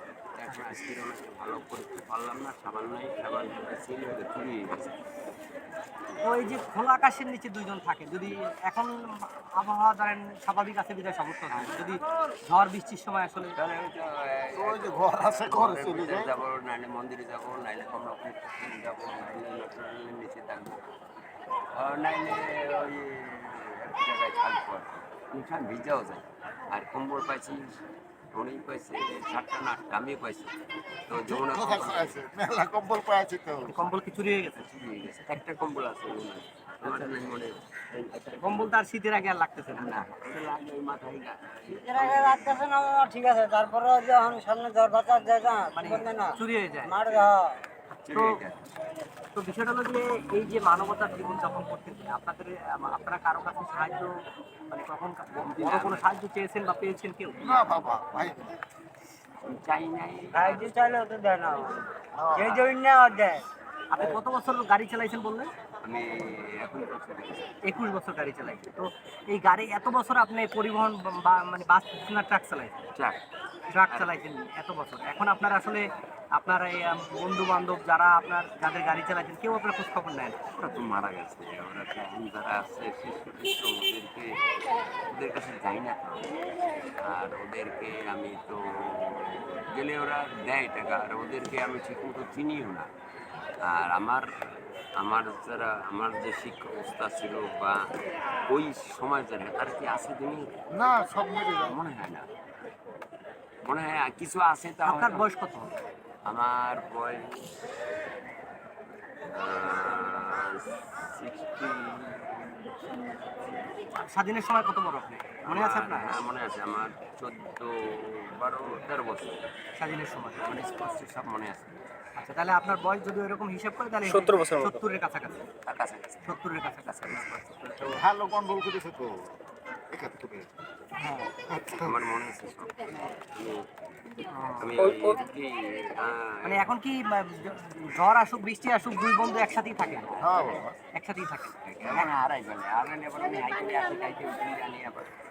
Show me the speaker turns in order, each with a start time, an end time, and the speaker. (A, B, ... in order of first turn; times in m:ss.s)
0:00.4-0:05.0 A
0:06.2-0:13.6 B
0:11.5-0:11.9 A
0:13.6-0:20.9 A
0:14.6-0:16.4 C
0:21.8-0:27.8 A
0:28.3-0:30.5 A
0:31.1-0:32.2 A
0:31.1-0:33.9 C
0:33.7-0:34.7 B
0:34.6-0:38.8 A
0:38.4-0:39.9 B
0:39.8-0:42.9 A
0:41.7-0:47.6 D
0:45.7-0:47.3 B
0:48.0-0:48.4 B
0:48.1-0:48.6 A
0:49.4-0:54.1 B
0:54.7-0:57.7 B
0:55.3-0:56.1 A
0:57.4-0:58.6 C
0:59.4-1:00.7 A
1:00.3-1:03.4 D
1:02.2-1:02.6 C
1:02.4-1:02.7 A
1:03.9-1:05.5 B
1:05.8-1:07.6 A
1:07.6-1:12.7 B
1:13.7-1:20.4 B
1:13.9-1:14.2 A
1:20.6-1:24.4 A
1:25.1-1:26.4 A
1:27.0-1:32.9 A
1:33.6-1:34.3 A
1:35.0-1:37.9 A
1:38.5-1:40.6 A
1:40.7-1:41.8 C
1:41.6-1:42.3 A
1:43.6-1:45.3 A
1:44.8-1:45.7 B
1:46.3-1:47.4 A
1:49.3-1:52.7 A
1:53.3-1:53.7 A
1:54.0-1:56.2 B
1:55.4-1:59.5 A
1:59.8-2:00.6 B
2:00.4-2:01.8 A
2:02.2-2:05.5 B
2:05.7-2:08.0 A
2:06.3-2:07.4 B
2:07.9-2:09.4 C
2:09.9-2:10.5 C
2:11.1-2:12.0 C
2:11.8-2:13.6 A
2:14.2-2:16.7 A
2:14.3-2:14.7 B
2:16.4-2:20.1 B
2:20.1-2:20.6 A
2:20.2-2:20.8 C
2:21.0-2:22.1 B
2:21.6-2:25.1 A